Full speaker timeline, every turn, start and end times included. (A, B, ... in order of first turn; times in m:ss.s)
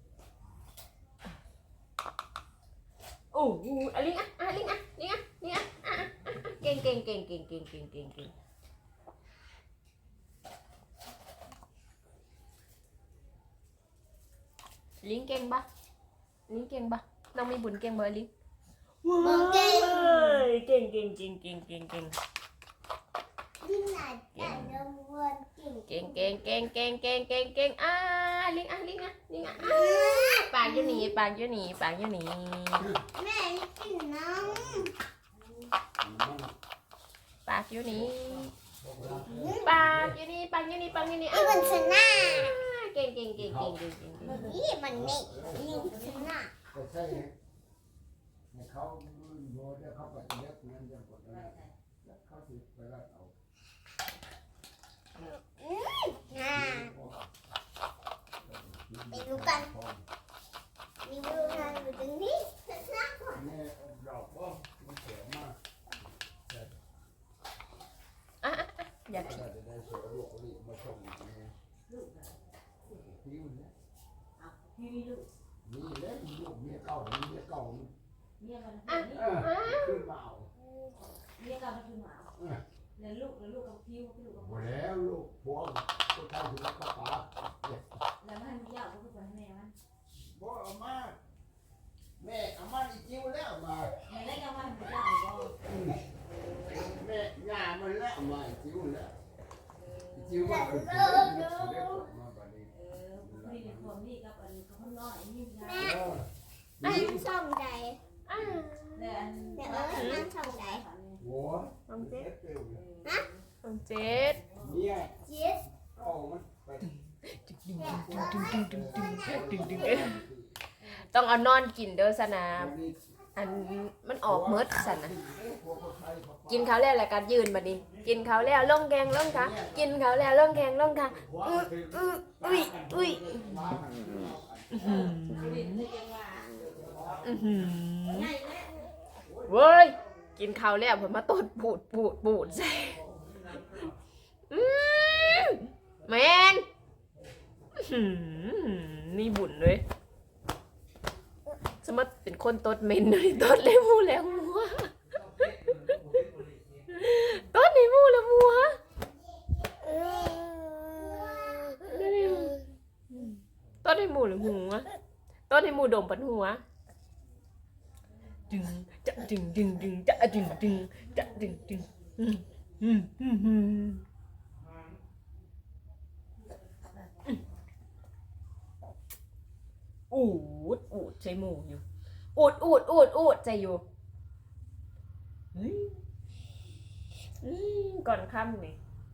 0:03.3-0:08.3 A
0:15.0-0:15.7 A
0:16.5-0:18.3 A
0:19.0-0:22.2 A
0:19.2-0:20.4 B
0:23.6-0:26.4 B
0:24.4-0:24.8 A
0:25.9-0:32.9 A
0:29.6-0:31.1 B
0:33.1-0:34.9 B
0:35.4-0:35.7 C
0:36.0-0:36.5 D
0:37.5-0:38.5 A
0:38.8-0:40.2 D
0:39.2-0:39.7 B
0:39.6-0:44.4 A
0:41.3-0:42.6 B
0:43.4-0:43.8 D
0:44.2-0:44.7 C
0:44.3-0:46.5 B
0:44.9-0:45.7 D
0:45.4-0:46.3 C
0:46.7-0:47.4 D
0:48.5-0:53.3 D
0:51.3-0:51.7 C
0:55.2-0:56.9 B
0:56.4-0:57.3 D
0:58.4-1:00.0 D
0:59.1-0:59.7 B
1:01.0-1:03.5 B
1:03.4-1:05.6 D
1:06.5-1:06.8 D
1:08.4-1:09.4 A
1:09.2-1:11.5 D
1:11.9-1:12.4 C
1:12.9-1:13.7 D
1:14.4-1:15.3 C
1:15.6-1:17.9 D
1:18.4-1:19.4 C
1:18.9-1:20.1 A
1:19.1-1:20.5 D
1:21.4-1:22.3 C
1:22.4-1:22.6 D
1:23.0-1:24.7 C
1:24.4-1:27.9 D
1:28.2-1:29.8 C
1:30.3-1:31.2 D
1:32.2-1:34.0 D
1:34.1-1:35.6 C
1:35.6-1:36.0 D
1:36.7-1:39.2 D
1:40.1-1:44.0 D
1:40.4-1:41.8 B
1:42.8-1:46.0 C
1:45.6-1:46.0 B
1:45.8-1:46.3 D
1:46.8-1:47.3 D
1:46.8-1:48.0 B
1:46.8-1:47.2 A
1:48.3-1:50.3 A
1:49.0-1:51.2 C
1:49.5-1:50.8 B
1:51.2-1:52.8 D
1:51.9-1:52.3 A
1:52.8-1:53.4 C
1:53.6-1:54.4 A
1:54.6-1:55.2 D
1:55.2-1:55.6 B
1:56.0-1:56.9 D
1:56.8-2:00.2 A
1:57.8-1:58.6 B
1:57.8-2:00.6 D
2:01.1-2:02.7 A
2:02.5-2:03.0 D
2:03.4-2:05.2 A
2:04.3-2:06.8 D
2:06.5-2:13.8 A
2:09.2-2:09.9 D
2:11.2-2:15.1 D
2:14.7-2:15.8 A
2:14.8-2:16.7 C
2:16.6-2:17.4 D
2:17.2-2:18.3 A
2:18.1-2:18.9 C
2:19.2-2:20.0 D
2:19.5-2:23.0 A
2:24.5-2:26.7 A
2:27.8-2:29.8 A
2:31.8-2:36.2 A
2:36.9-2:38.8 A
2:38.9-2:42.4 B
2:39.9-2:44.9 A
2:45.5-2:46.6 A
2:48.5-2:54.0 A
3:00.1-3:01.8 A
3:02.4-3:03.8 A
3:05.5-3:06.0 A
3:07.4-3:08.8 A